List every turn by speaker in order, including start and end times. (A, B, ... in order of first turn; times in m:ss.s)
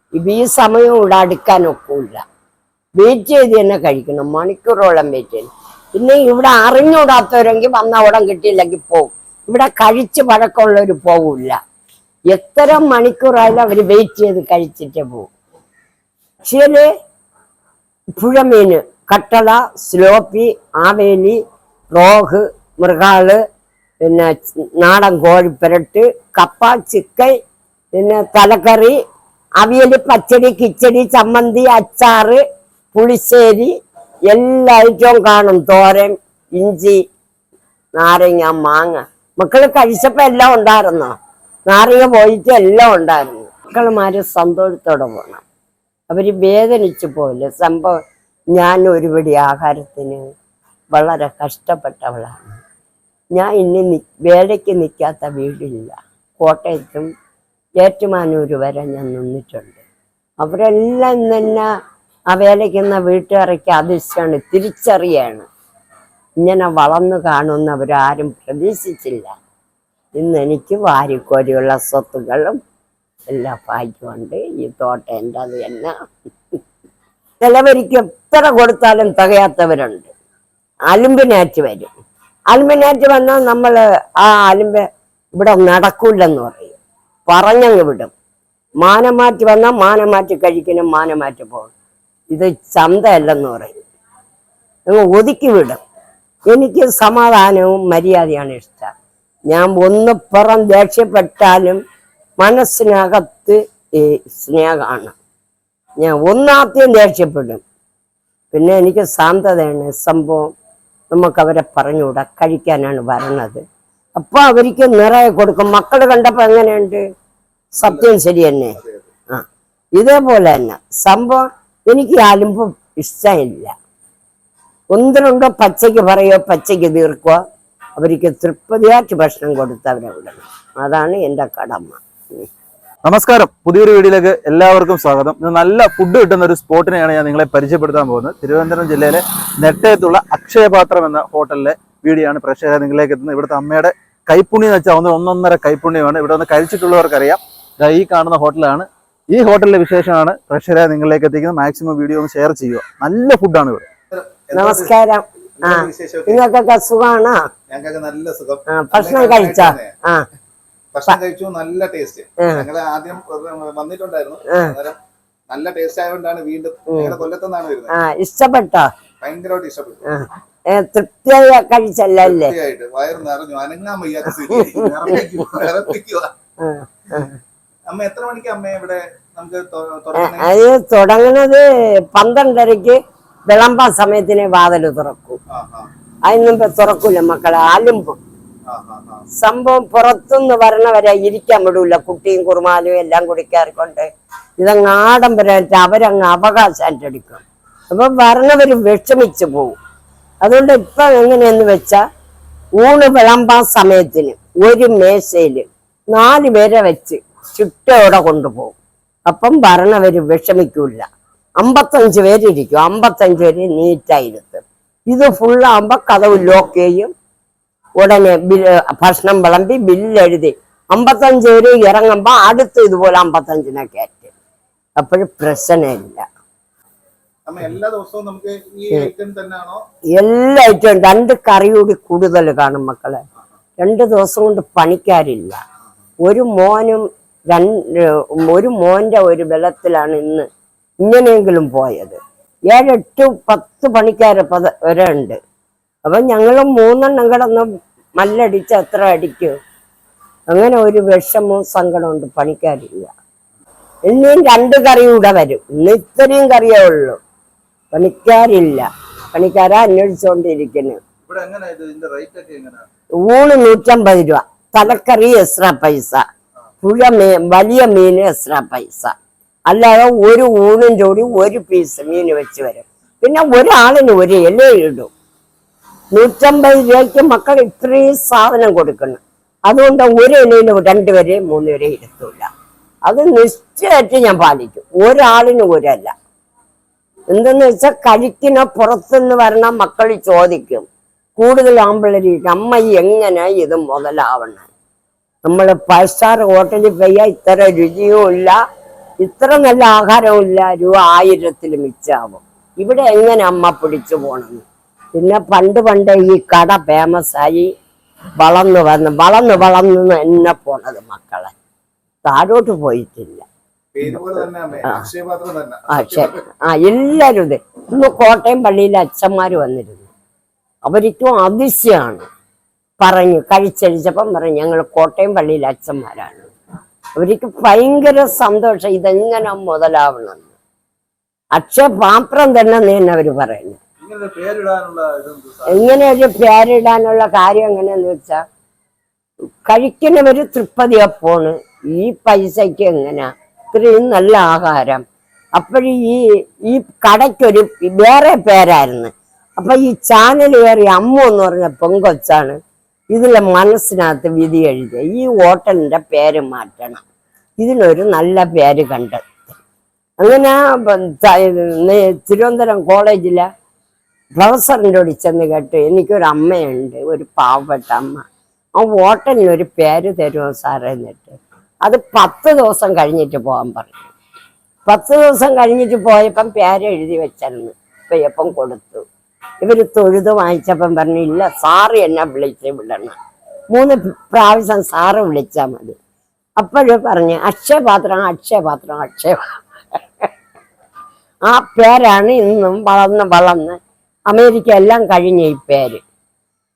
0:00.2-0:02.2 A
0:03.0-0:11.6 A
0:12.3-0:15.3 A
0:16.4-0:16.9 A
0:18.2-0:21.4 A
0:21.9-0:23.4 A
0:24.0-0:27.3 A
0:27.9-0:29.0 A
0:29.6-0:32.4 A
0:32.9-0:33.7 A
0:34.3-0:37.0 A
0:38.0-0:41.2 A
0:41.7-0:45.4 A
0:46.1-0:48.0 A
0:48.5-0:50.3 A
0:50.9-0:52.6 A
0:53.3-0:57.1 A
0:57.8-0:59.8 A
1:00.4-1:01.7 A
1:02.3-1:05.5 A
1:06.4-1:09.3 A
1:10.2-1:12.6 A
1:13.3-1:15.9 A
1:17.4-1:20.1 A
1:20.9-1:21.9 A
1:22.5-1:24.8 A
1:25.3-1:26.8 A
1:27.3-1:28.1 A
1:28.8-1:31.7 A
1:32.3-1:33.7 A
1:34.9-1:35.8 A
1:36.5-1:38.9 A
1:39.5-1:41.8 A
1:42.4-1:45.2 A
1:46.0-1:47.6 A
1:48.5-1:50.5 A
1:51.1-1:53.6 A
1:54.2-1:57.0 A
1:57.8-1:58.1 B
1:57.8-1:58.8 A
1:58.8-1:59.1 B
2:00.0-2:03.7 A
2:04.9-2:07.4 A
2:08.0-2:12.5 A
2:13.0-2:27.3 C
2:27.9-2:28.8 C
2:29.3-2:33.8 C
2:34.1-2:34.9 B
2:34.5-2:37.5 A
2:35.6-2:36.4 B
2:37.7-2:39.9 B
2:38.7-2:40.2 A
2:40.9-2:45.0 B
2:45.5-2:48.0 B
2:46.9-2:47.2 A
2:47.9-2:48.9 A
2:49.2-2:50.0 B
2:50.0-2:52.5 A
2:52.2-2:56.3 B
2:54.4-2:55.2 A
2:56.6-2:57.4 A
2:57.9-3:00.5 B
3:00.2-3:05.4 A
3:05.5-3:05.9 B
3:06.3-3:08.2 A
3:08.7-3:09.2 B
3:09.4-3:14.1 A
3:14.6-3:19.8 A
3:20.4-3:22.0 A
3:22.8-3:31.0 A
3:31.6-3:37.1 A
3:38.0-3:44.3 A
3:45.0-3:46.2 A
3:47.4-3:49.8 B
3:50.2-3:53.2 A
3:53.8-3:55.6 A
3:56.2-4:00.5 A
4:01.0-4:05.4 A
4:06.0-4:07.7 A
4:08.2-4:09.6 A
4:10.5-4:13.1 A
4:14.1-4:17.2 A
4:17.9-4:21.0 A
4:21.3-4:22.8 B
4:23.3-4:26.2 A
4:26.8-4:29.1 A
4:29.7-4:35.1 A
4:36.1-4:42.5 A
4:43.0-4:46.1 A
4:47.3-4:54.7 A
4:55.5-4:58.6 A
4:59.2-5:07.7 A
5:08.4-5:11.5 A
5:12.2-5:13.4 A
5:13.9-5:16.4 B
5:15.9-5:20.1 A
5:20.8-5:22.3 A
5:23.0-5:26.5 A
5:27.2-5:30.5 A
5:31.5-5:33.8 A
5:34.0-5:36.0 B
5:35.7-5:38.4 A
5:39.6-5:45.0 A
5:45.6-5:52.6 A
5:53.1-5:57.0 A
5:57.6-5:59.3 A
6:00.2-6:03.5 A
6:04.4-6:08.2 A
6:08.8-6:14.1 A
6:14.9-6:19.0 A
6:19.6-6:23.2 A
6:23.7-6:26.0 A
6:26.6-6:29.6 A
6:31.5-6:36.0 A